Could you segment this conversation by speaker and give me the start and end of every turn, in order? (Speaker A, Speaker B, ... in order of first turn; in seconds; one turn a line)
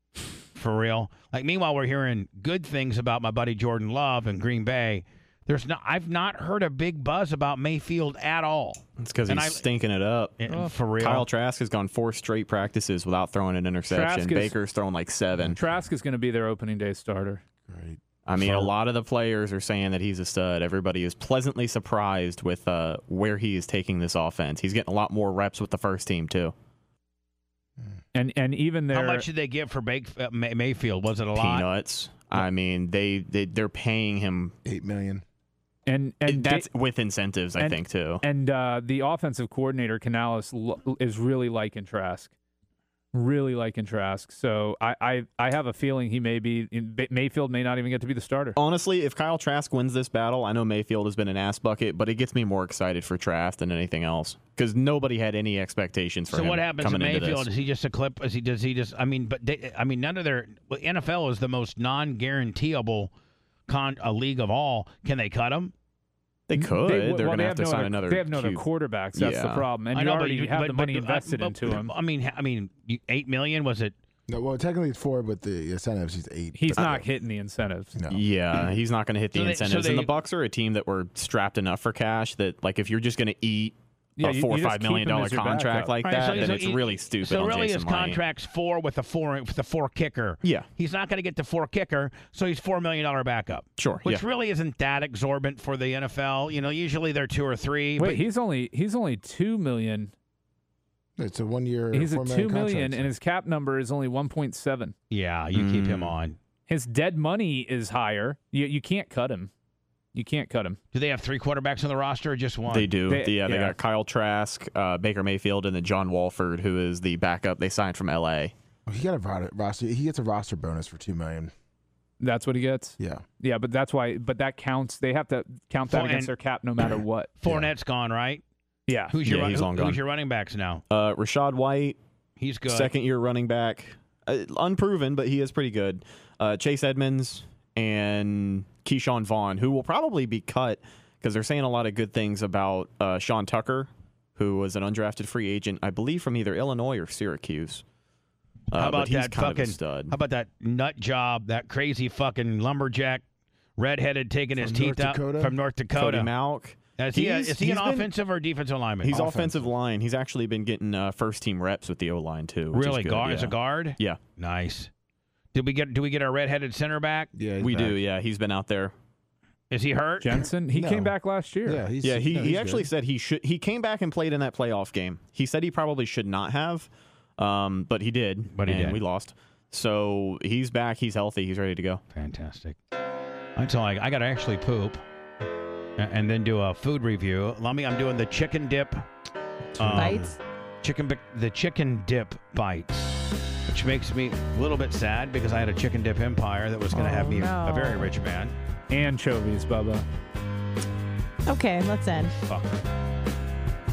Speaker A: 0.6-9.7
Speaker B: 9.0-15.6
Speaker A: 10.4-11.3
Speaker C: 13.9-14.5
Speaker C: 15.5-17.4
Speaker D: 17.6-18.0
Speaker B: 18.2-26.5
Speaker A: 18.4-18.7
Speaker C: 28.1-29.2
Speaker A: 28.9-31.6
Speaker B: 31.4-34.5
Speaker D: 34.6-35.2
Speaker C: 35.9-36.7
Speaker B: 36.3-38.2
Speaker C: 37.6-42.3
Speaker C: 43.1-48.6
Speaker B: 48.5-57.5
Speaker A: 56.3-63.1
Speaker A: 63.7-65.7
Speaker B: 66.5-68.6
Speaker C: 66.5-71.9
Speaker B: 69.1-69.7
Speaker A: 69.9-73.9
Speaker D: 74.3-77.0
Speaker C: 76.5-77.9
Speaker B: 76.8-77.0
Speaker D: 77.9-78.2
Speaker B: 78.1-88.2
Speaker A: 79.3-80.1
Speaker C: 84.2-86.4
Speaker A: 86.0-98.2
Speaker B: 93.8-94.2
Speaker C: 98.0-100.1
Speaker D: 101.2-103.1
Speaker C: 101.9-104.9
Speaker A: 105.1-106.4
Speaker B: 105.5-106.1
Speaker C: 106.7-109.5
Speaker C: 110.1-110.8
Speaker A: 110.9-112.9
Speaker B: 112.7-118.5
Speaker C: 113.1-113.8
Speaker D: 118.8-121.5
Speaker C: 122.2-127.3
Speaker D: 123.0-123.2
Speaker A: 125.9-126.3
Speaker A: 127.4-128.4
Speaker C: 128.9-129.1
Speaker A: 129.1-130.8
Speaker B: 129.2-130.0
Speaker B: 130.9-132.0
Speaker A: 132.4-132.9
Speaker B: 132.7-147.8
Speaker B: 148.7-150.1
Speaker A: 148.8-153.2
Speaker A: 153.8-156.3
Speaker D: 154.6-155.5
Speaker B: 155.9-158.1
Speaker A: 157.0-159.2
Speaker B: 159.0-164.2
Speaker D: 159.1-159.7
Speaker A: 162.7-164.9
Speaker A: 165.5-167.3
Speaker D: 167.3-168.0
Speaker B: 167.6-168.9
Speaker A: 169.7-170.4
Speaker C: 170.2-171.8
Speaker D: 170.7-171.1
Speaker D: 171.6-172.9
Speaker B: 172.0-182.0
Speaker A: 178.5-179.0
Speaker A: 182.1-182.8
Speaker A: 183.6-185.0
Speaker A: 186.0-189.1
Speaker A: 189.8-190.3
Speaker D: 189.8-190.3
Speaker E: 189.9-190.4
Speaker A: 190.8-198.6
Speaker E: 196.9-198.1
Speaker C: 198.9-200.0
Speaker E: 201.4-202.3
Speaker A: 202.4-202.8